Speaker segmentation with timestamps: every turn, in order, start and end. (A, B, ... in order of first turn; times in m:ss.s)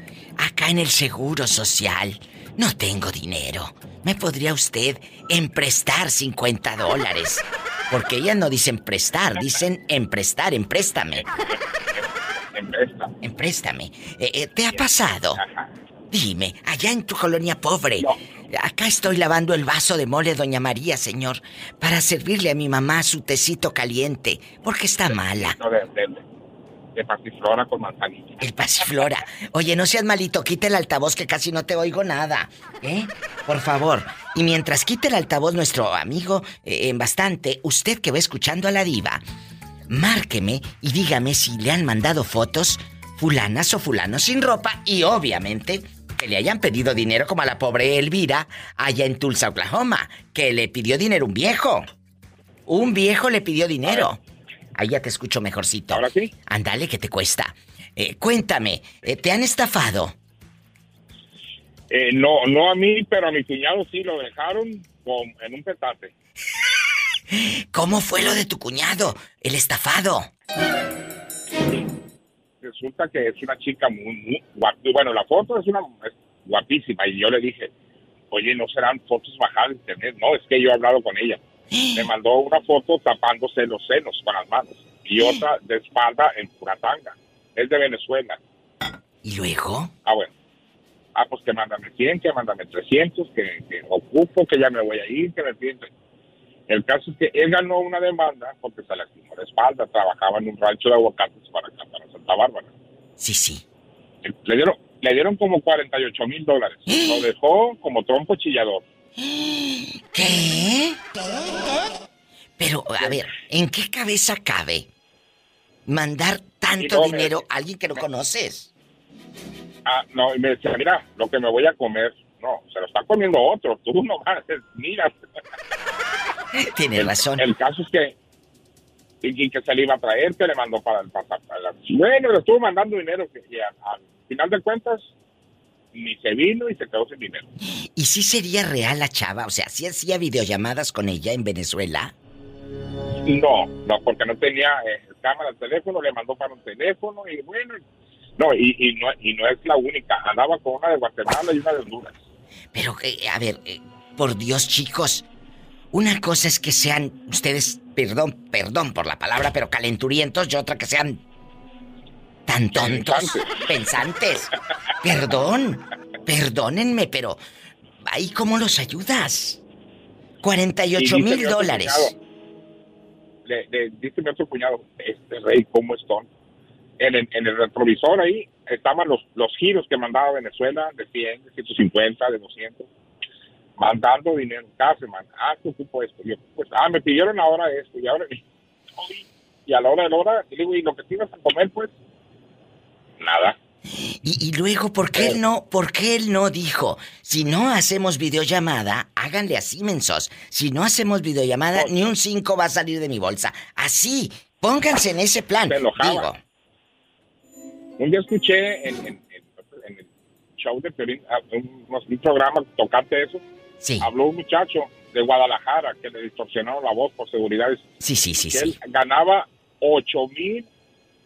0:00.4-0:11.2 A
0:11.1-0:13.1 B
0:13.2-0:15.4 A
0:14.7-0:15.7 B
0:16.1-0:25.6 A
0:25.1-0:26.2 B
0:27.0-0:28.4 B
0:28.4-0:39.2 A
0:39.9-0:51.8 A
0:52.7-0:54.2 A
0:54.7-1:00.1 A
0:55.9-0:56.3 B
1:01.9-1:06.1 B
1:07.3-1:10.3 A
1:12.6-1:17.7 B
1:18.3-1:21.4 B
1:21.7-1:22.1 A
1:21.9-1:28.4 B
1:29.2-1:29.9 A
1:30.0-1:30.3 B
1:31.1-1:35.9 B
1:36.7-1:42.7 B
1:43.2-1:43.6 A
1:44.2-1:48.8 B
1:46.9-1:47.3 A
1:49.2-1:51.0 A
1:52.6-1:54.9 A
1:55.9-1:58.7 A
1:56.8-1:57.4 B
1:59.8-2:05.2 B
2:06.6-2:07.5 A
2:07.0-2:08.2 B
2:09.2-2:15.1 B
2:15.9-2:17.5 B
2:18.0-2:22.1 A
2:23.2-2:27.8 B
2:28.4-2:32.2 B
2:32.7-2:35.2 A
2:35.9-2:41.2 A
2:42.5-2:44.5 A
2:42.7-2:43.6 B
2:45.0-2:47.4 A
2:48.0-2:49.6 A
2:50.4-2:52.1 A
2:51.0-2:52.1 B
2:53.4-2:56.3 B
2:57.0-3:02.9 B
3:03.8-3:08.4 B
3:09.0-3:11.9 B
3:13.2-3:13.5 B
3:14.2-3:26.4 A
3:25.7-3:26.3 B
3:28.0-3:33.4 B
3:33.8-3:34.1 A
3:34.0-3:37.9 B
3:38.0-3:38.8 A
3:38.5-3:40.7 B